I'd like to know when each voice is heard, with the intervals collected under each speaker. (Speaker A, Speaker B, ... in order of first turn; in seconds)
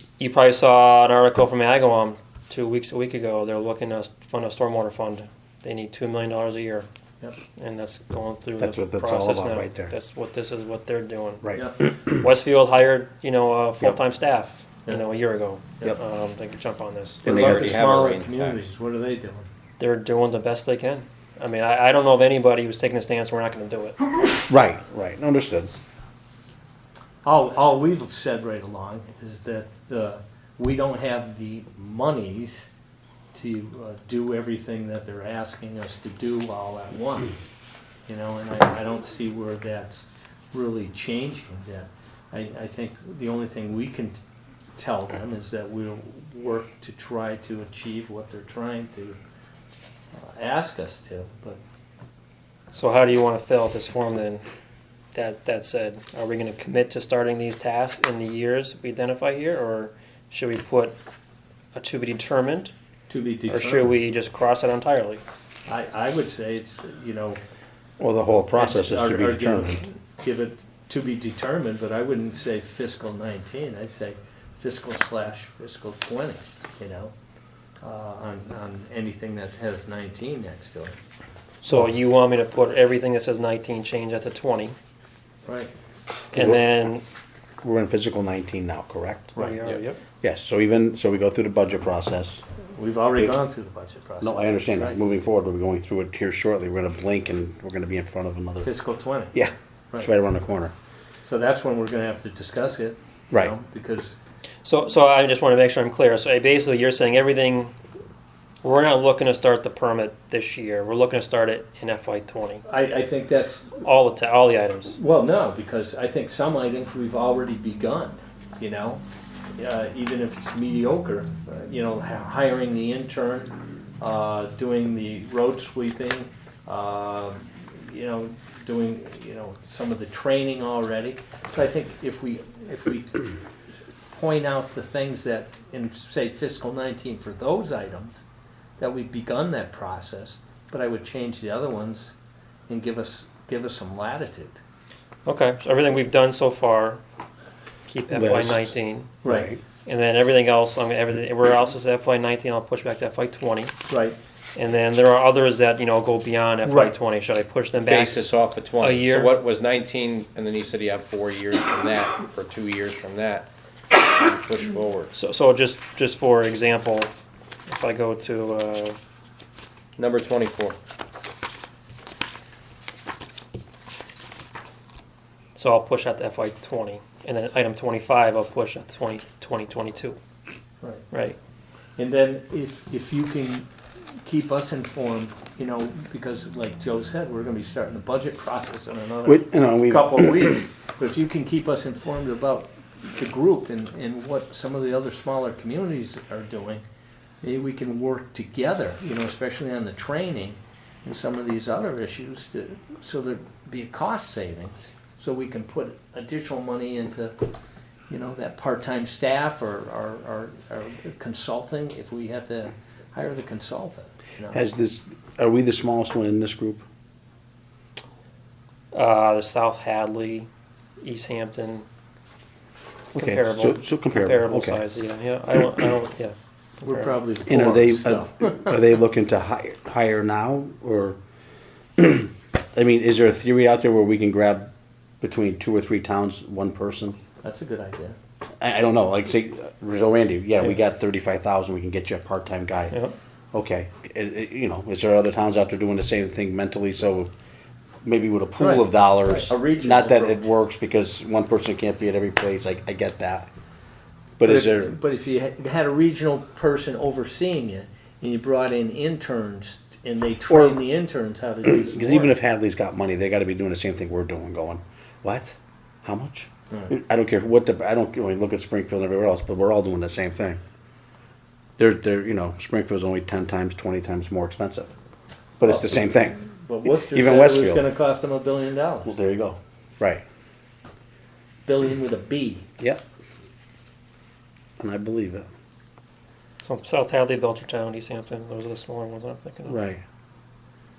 Speaker A: 0.2-6.9, 7.6-17.2, 19.8-24.0, 52.7-54.5, 55.1-61.0, 61.8-62.7, 63.5-65.2, 81.6-84.8, 86.3-87.0, 89.4-90.0, 104.6-107.7, 108.6-112.7, 113.8-115.0, 145.3-147.0, 147.9-149.2, 149.8-153.8, 154.6-159.3, 165.1-167.1, 167.7-169.0, 175.6-180.2, 181.1-181.4, 218.9-220.5, 221.0-221.9, 223.1-227.2, 286.6-289.8
Speaker B: 8.6-9.9, 11.4-12.2, 17.2-17.8, 24.5-25.7, 68.0-69.8, 86.3-86.7, 87.6-89.4, 90.2-92.4, 94.2-98.7, 99.3-100.7, 148.1-148.7, 149.2-149.6, 189.2-190.6, 214.5-216.8, 223.1-224.8, 227.5-231.2, 232.0-234.7, 235.2-237.2, 238.6-243.0, 243.5-247.3, 248.0-253.5, 254.4-254.9, 260.5-260.8, 261.7-270.6, 271.8-274.9, 275.6-277.9, 279.1-280.2, 284.8-285.5, 289.7-290.0
Speaker C: 11.5-11.8, 17.2-19.5, 27.2-32.7, 33.3-37.5, 38.1-44.2, 44.8-49.2, 50.1-51.6, 63.1-63.9, 65.7-67.4, 68.5-77.1, 77.8-81.0, 85.5-85.7, 89.4-89.8, 92.8-95.0, 98.6-99.3, 101.2-104.1, 112.7-113.8, 115.0-119.0, 119.5-133.3, 134.1-138.2, 138.8-142.2, 142.7-144.6, 149.2-149.5, 153.9-154.2, 156.7-156.9, 180.8-181.1, 182.0-196.8, 197.4-207.4, 208.1-214.7, 226.8-228.8, 237.4-238.2, 248.6-250.5, 254.4-262.4, 275.6-279.2, 281.7-282.7
Speaker D: 17.2-18.7, 157.9-165.1, 170.0-170.8